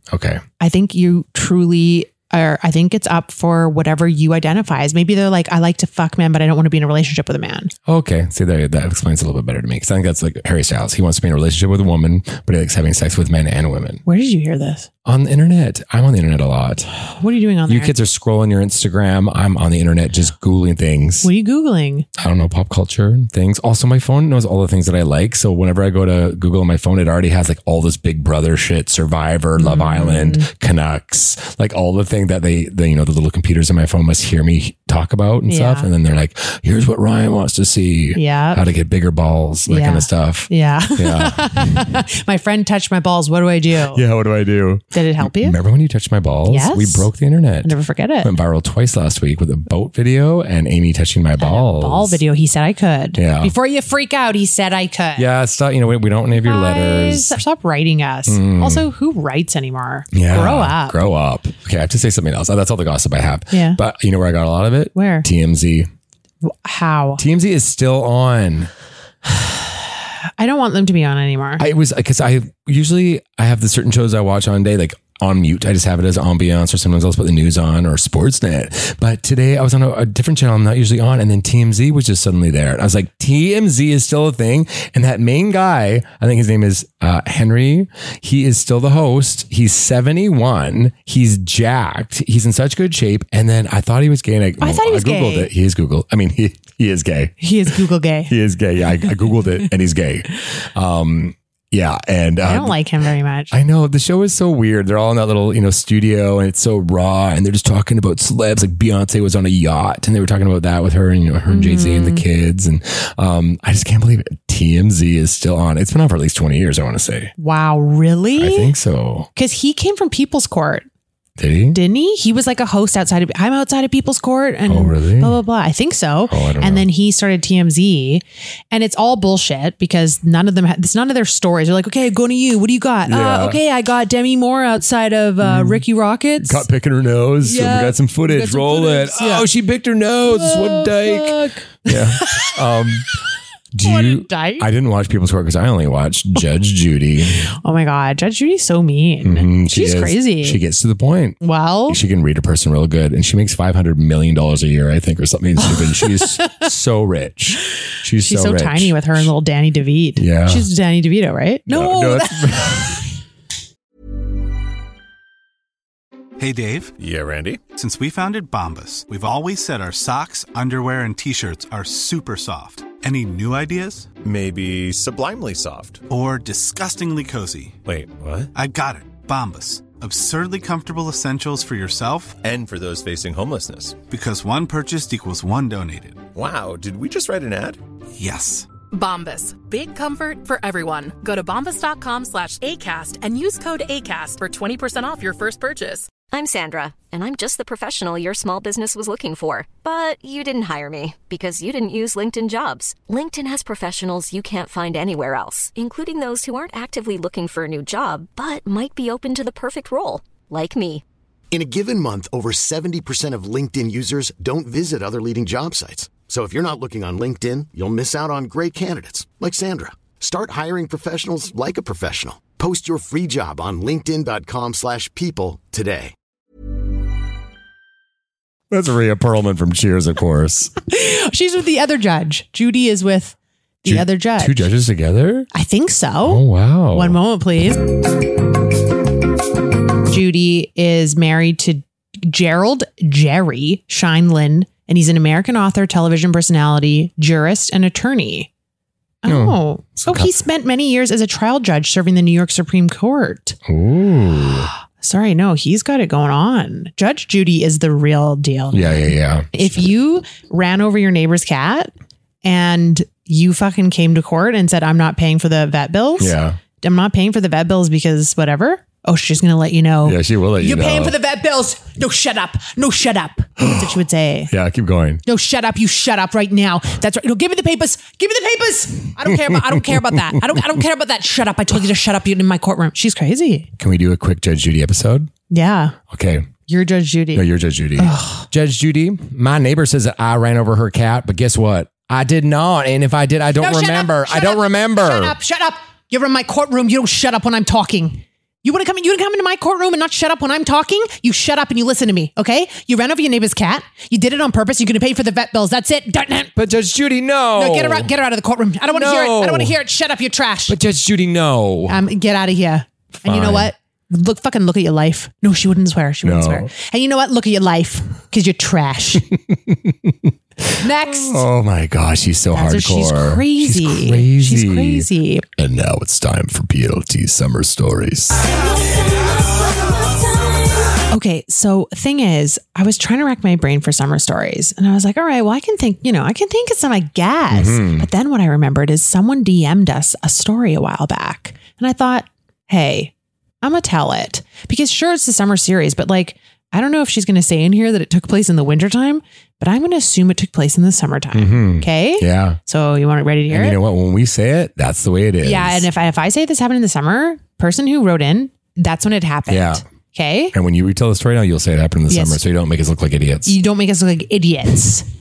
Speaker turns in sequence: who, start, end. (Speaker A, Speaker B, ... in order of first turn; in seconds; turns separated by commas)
Speaker A: 0.1-0.4, Speaker B: 0.6-7.7, Speaker A: 7.9-14.0, Speaker B: 14.1-14.9, Speaker A: 15.1-16.9, Speaker B: 17.1-17.9, Speaker A: 17.7-21.3, Speaker B: 21.2-22.1, Speaker A: 22.2-42.0, Speaker B: 29.6-30.5, Speaker B: 35.5-35.9, Speaker B: 38.1-38.6, Speaker B: 39.7-44.0, Speaker A: 43.9-52.2, Speaker B: 44.9-45.6, Speaker B: 46.5-47.1, Speaker B: 47.6-48.3, Speaker B: 51.4-55.3, Speaker A: 53.2-53.5, Speaker A: 55.2-57.4, Speaker B: 56.4-61.0, Speaker A: 58.3-58.9, Speaker A: 60.1-65.9, Speaker B: 63.5-63.8, Speaker B: 65.0-65.3, Speaker B: 66.4-67.2, Speaker A: 67.2-68.7, Speaker B: 69.3-69.7, Speaker B: 70.4-71.6, Speaker A: 71.6-97.7, Speaker B: 94.6-95.5, Speaker B: 97.4-98.3, Speaker A: 98.3-102.8, Speaker B: 102.4-103.5, Speaker A: 103.5-117.3, Speaker B: 111.5-112.2, Speaker B: 117.4-118.7, Speaker A: 118.4-119.3, Speaker B: 119.3-120.9, Speaker A: 121.4-121.8, Speaker B: 121.7-136.7, Speaker A: 124.7-125.4, Speaker A: 126.3-126.9, Speaker A: 133.1-133.6, Speaker A: 135.4-135.8, Speaker A: 136.4-143.1, Speaker B: 137.4-139.5, Speaker B: 140.3-142.6, Speaker A: 143.7-147.5, Speaker B: 143.8-144.7, Speaker B: 147.6-150.6, Speaker A: 149.2-159.3, Speaker B: 151.4-152.0, Speaker B: 155.6-156.6, Speaker B: 158.2-163.1, Speaker A: 160.2-160.7, Speaker A: 161.7-163.0, Speaker C: 166.4-166.9, Speaker D: 167.0-167.7, Speaker C: 167.7-174.1, Speaker D: 174.1-176.0, Speaker C: 176.1-177.8, Speaker D: 177.8-178.5, Speaker C: 178.5-182.4, Speaker D: 182.4-184.0, Speaker C: 184.1-186.2, Speaker D: 186.3-187.8, Speaker C: 188.2-188.7, Speaker E: 188.9-196.1, Speaker F: 196.3-211.0, Speaker G: 211.5-226.1, Speaker A: 228.7-230.7, Speaker B: 230.9-234.7, Speaker A: 233.9-235.5, Speaker B: 235.5-238.0, Speaker A: 236.2-237.2, Speaker B: 240.1-248.5, Speaker B: 249.2-253.6, Speaker A: 249.3-250.3, Speaker A: 253.7-254.7, Speaker B: 255.0-261.9, Speaker A: 258.7-259.9, Speaker B: 262.4-274.5, Speaker A: 266.2-266.6, Speaker A: 270.0-271.2, Speaker A: 273.6-273.9, Speaker A: 274.5-275.2, Speaker B: 275.3-283.7, Speaker A: 279.2-280.6, Speaker A: 283.8-285.3, Speaker B: 285.5-286.0, Speaker A: 286.1-286.5, Speaker B: 286.7-288.5, Speaker A: 287.3-295.4, Speaker B: 293.6-306.6, Speaker A: 306.6-308.1, Speaker B: 307.6-310.8, Speaker A: 308.9-309.8, Speaker A: 310.7-312.1, Speaker B: 311.9-319.3, Speaker A: 313.2-313.7, Speaker A: 316.2-316.7, Speaker A: 319.3-328.5, Speaker B: 320.8-321.5, Speaker B: 322.5-325.4, Speaker B: 331.1-353.8, Speaker A: 337.5-338.1, Speaker A: 351.3-352.6, Speaker A: 353.5-355.9, Speaker B: 355.4-360.5, Speaker A: 359.5-359.8, Speaker A: 360.5-363.6, Speaker B: 362.1-362.4, Speaker B: 363.5-365.1